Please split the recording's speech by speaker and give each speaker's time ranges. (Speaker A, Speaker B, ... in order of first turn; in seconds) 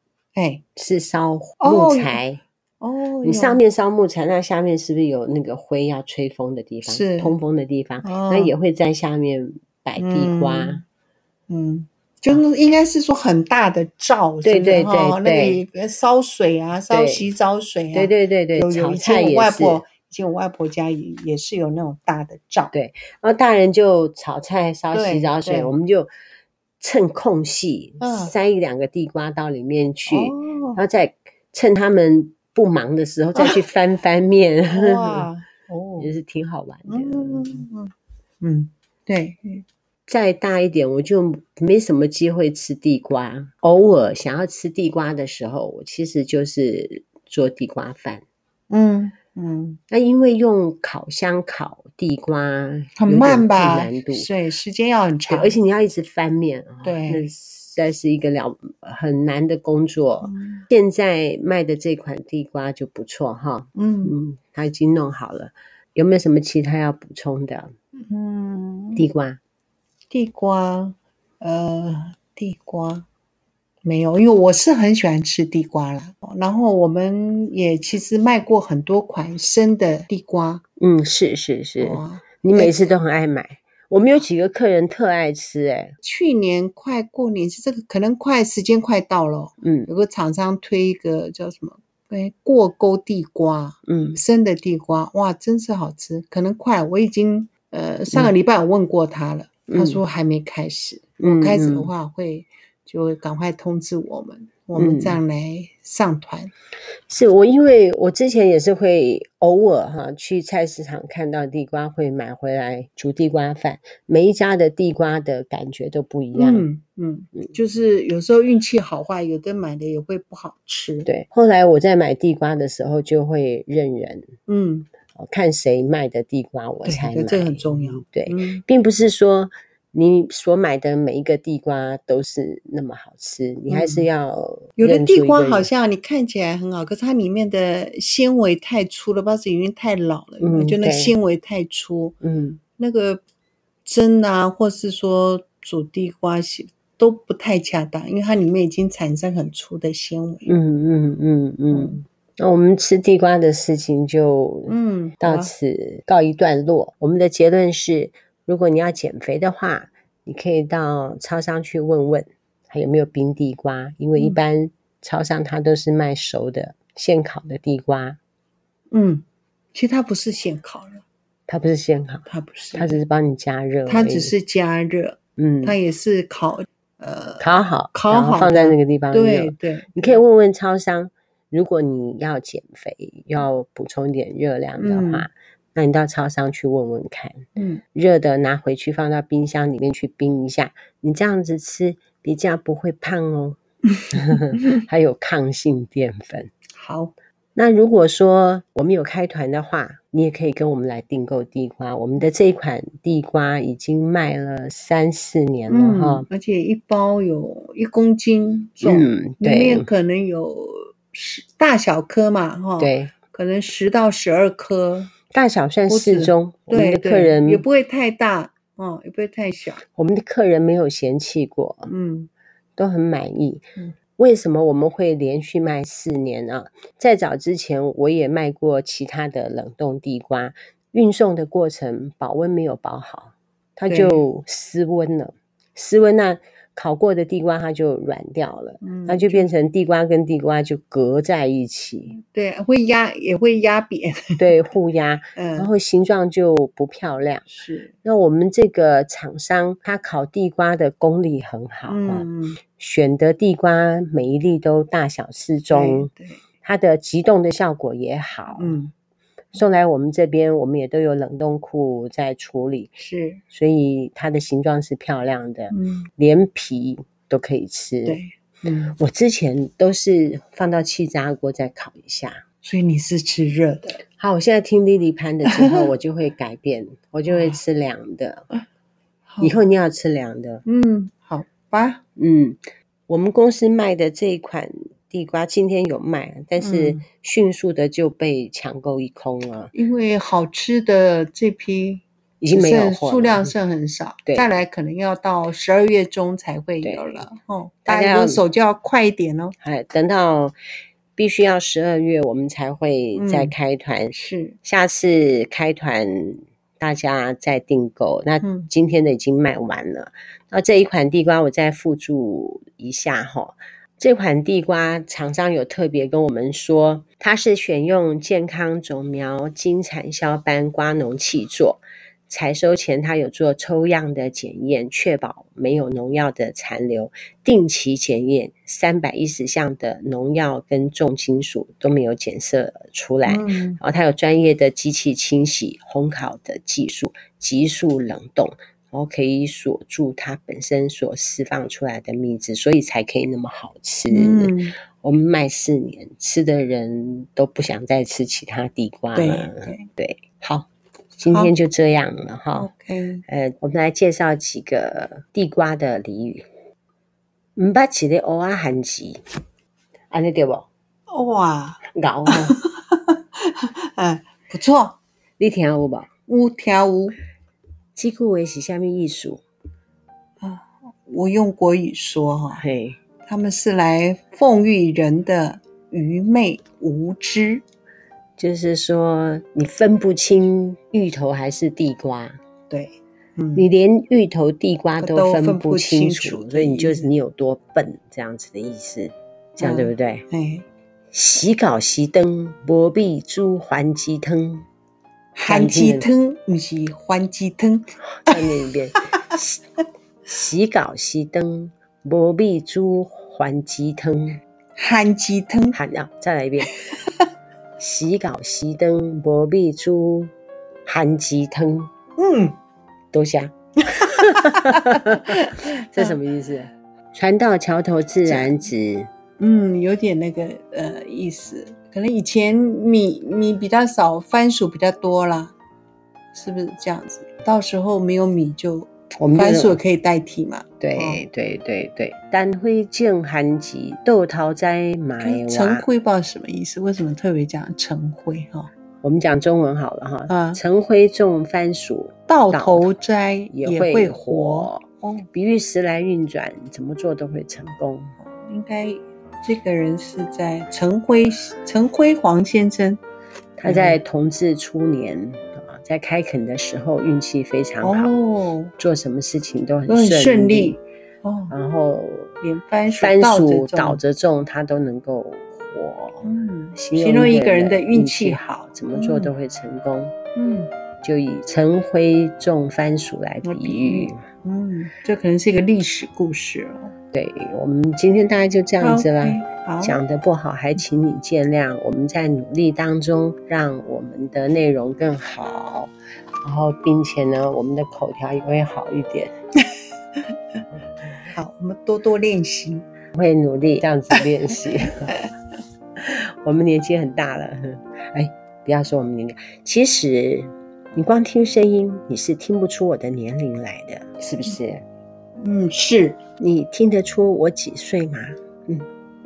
Speaker A: 0.3-0.6, 1.6-2.2, 2.8-3.6, 6.8-7.3, 8.0-8.5, 10.0-10.8, 11.5-22.7, 24.9-25.7, 28.0-28.3, 30.1-30.8, 34.7-36.1, 36.9-39.6, 48.7-49.8, 53.0-55.5, 56.8-57.3, 60.2-60.6, 63.8-64.2, 68.0-69.0, 70.1-73.1, 73.8-80.6, 81.8-82.9, 86.0-106.5, 116.3-121.1, 124.5-124.9, 126.8-128.6, 133.7-134.1, 134.8-142.2, 142.8-143.2, 143.8-150.5, 151.7-152.0, 154.7-155.5, 168.9-171.0, 172.3-173.0, 173.9-180.2, 184.8-185.3, 187.6-187.8, 196.7-197.1, 205.7-215.1, 215.9-219.8, 221.9-222.3, 233.9-234.2, 238.8-239.5, 242.2-244.4, 245.4-245.7, 247.5-247.9, 251.9-252.6, 255.7-256.4, 258.6-258.9, 263.0-263.4, 265.7-266.1, 268.1-269.0, 272.6-274.0, 275.4-275.9, 277.3-277.6, 279.3-279.6, 280.7-282.0, 286.6-287.0, 289.7-299.6, 303.1-303.5, 304.2-304.6, 308.4-308.7, 333.3-333.8, 344.1-344.8, 349.1-349.9, 351.2-351.5, 352.6-353.2, 361.1-365.0, 366.3-367.2, 370.4-372.6, 373.2-377.6, 382.7-383.7, 385.0-387.1, 389.6-390.6, 395.4-399.4, 404.8-405.8, 406.9-407.3, 412.2-412.6, 414.0-416.2, 418.2-418.6, 419.4-425.5, 426.3-431.2, 435.2-438.7, 440.3-440.6, 442.3-445.3, 448.2-453.0, 453.6-454.0, 457.8-458.7, 459.9-461.5, 462.4-464.0, 466.2-469.3, 470.4-470.7, 473.4-476.9, 478.8-480.0, 491.3-492.9, 505.4-506.2
Speaker B: 0.8-2.4, 3.2-10.8, 14.4-15.6, 16.9-17.3, 17.9-19.8, 22.7-26.1, 26.8-35.3, 36.0-37.7, 40.1-48.2, 49.9-54.3, 55.3-67.8, 69.0-69.4, 80.8-86.0, 89.6-89.9, 93.9-94.2, 99.7-100.0, 101.2-101.9, 104.8-105.2, 107.1-116.7, 121.1-124.4, 125.1-135.7, 140.4-141.1, 142.2-142.6, 150.5-168.2, 171.5-174.3, 175.4-175.8, 177.4-193.6, 194.1-196.5, 197.6-206.3, 208.8-209.9, 212.8-213.1, 215.3-217.6, 219.9-221.9, 222.8-242.2, 244.4-247.5, 248.0-258.8, 259.5-263.0, 263.5-268.2, 268.9-272.4, 274.2-278.5, 279.4-280.6, 282.2-289.7, 292.4-293.5, 296.8-297.2, 297.9-298.4, 299.6-300.6, 301.1-352.7, 353.3-356.5, 357.6-359.2, 360.1-360.7, 361.9-362.6, 365.4-366.1, 367.9-369.4, 372.5-373.0, 378.4-382.4, 383.6-390.3, 391.1-394.7, 395.4-396.1, 398.1-399.6, 400.3-404.4, 405.7-406.8, 407.8-410.3, 410.9-411.9, 413.1-419.1, 429.1-429.8, 430.8-435.9, 439.0-442.9, 443.5-448.2, 453.6-458.2, 458.8-460.8, 461.5-462.4, 463.0-470.2, 471.0-474.3, 477.1-489.3, 493.1-495.2, 496.0-504.8, 506.4-508.9